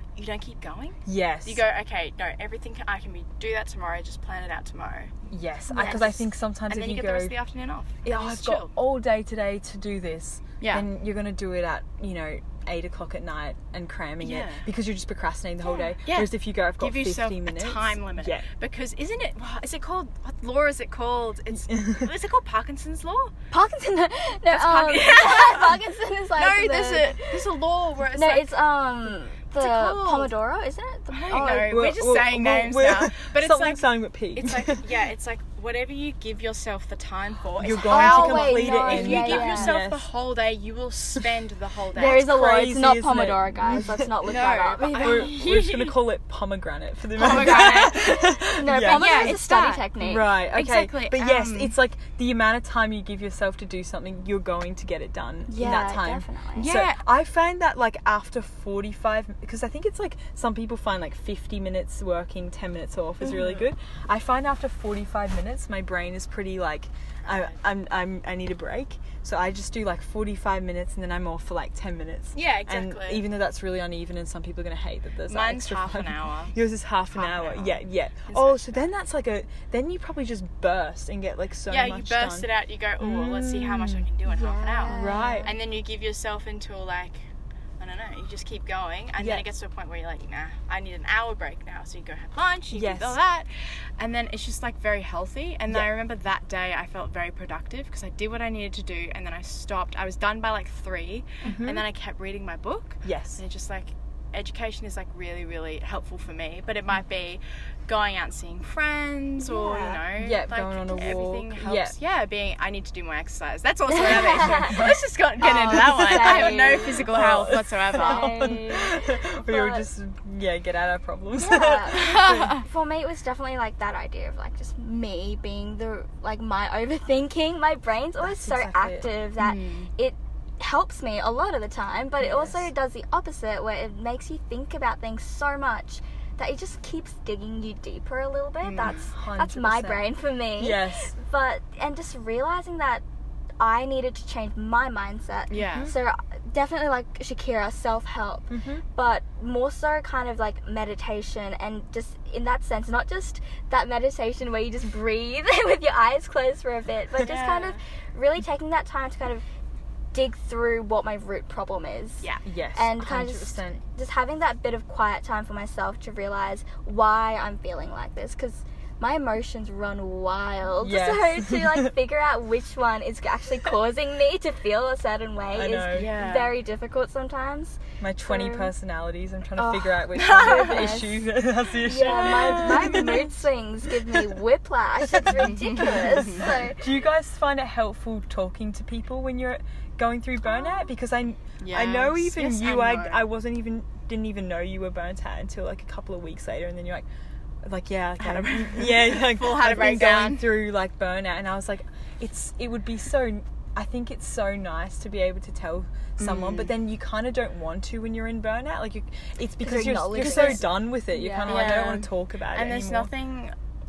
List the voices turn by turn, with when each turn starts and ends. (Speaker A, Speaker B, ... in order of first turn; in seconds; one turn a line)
Speaker A: 0.1-8.7
Speaker B: 1.1-1.6
Speaker B: 5.3-7.3
Speaker C: 5.7-6.1
Speaker B: 8.0-18.4
Speaker A: 10.6-10.9
Speaker A: 14.2-14.7
Speaker A: 16.1-23.3
Speaker B: 21.7-22.1
Speaker C: 23.5-27.4
Speaker A: 24.5-25.8
Speaker A: 26.4-28.5
Speaker C: 28.1-31.8
Speaker A: 29.6-30.3
Speaker A: 31.1-42.3
Speaker B: 31.6-34.9
Speaker B: 37.6-40.1
Speaker C: 37.9-39.7
Speaker C: 42.0-45.3
Speaker B: 42.0-44.1
Speaker A: 44.2-45.9
Speaker B: 45.0-82.5
Speaker A: 47.2-48.2
Speaker C: 47.2-50.3
Speaker A: 48.8-49.9
Speaker A: 50.5-51.8
Speaker C: 55.5-56.7
Speaker A: 56.5-57.0
Speaker A: 67.2-67.6
Speaker A: 72.3-73.2
Speaker A: 75.3-76.6
Speaker A: 77.1-78.9
Speaker A: 81.7-87.3
Speaker B: 83.0-84.1
Speaker C: 84.3-85.5
Speaker B: 84.9-85.5
Speaker A: 87.8-118.5
Speaker B: 89.2-89.5
Speaker B: 92.7-93.2
Speaker B: 101.5-101.9
Speaker B: 103.0-103.4
Speaker C: 109.4-110.0
Speaker B: 110.2-111.9
Speaker C: 113.9-114.8
Speaker B: 114.4-115.0
Speaker C: 115.4-117.1
Speaker B: 115.6-122.5
Speaker C: 118.0-119.9
Speaker C: 121.4-143.0
Speaker A: 121.9-122.7
Speaker B: 128.2-129.1
Speaker A: 129.4-129.9
Speaker B: 132.2-132.5
Speaker A: 138.6-139.1
Speaker B: 138.8-141.1
Speaker C: 143.6-159.4
Speaker A: 145.5-145.9
Speaker B: 148.5-148.8
Speaker A: 157.2-157.8
Speaker C: 160.1-178.7
Speaker B: 162.5-163.8
Speaker B: 170.8-171.9
Speaker B: 175.5-176.2
Speaker A: 175.9-176.5
Speaker B: 178.0-183.4
Speaker C: 179.6-181.3
Speaker A: 180.2-181.0
Speaker C: 181.8-186.8
Speaker A: 182.1-183.0
Speaker B: 184.1-184.3
Speaker B: 185.0-197.1
Speaker A: 185.4-186.5
Speaker C: 190.5-190.8
Speaker A: 191.6-193.2
Speaker B: 197.6-213.1
Speaker A: 198.2-200.5
Speaker A: 206.2-206.7
Speaker C: 209.6-211.7
Speaker A: 210.2-210.7
Speaker A: 211.4-213.5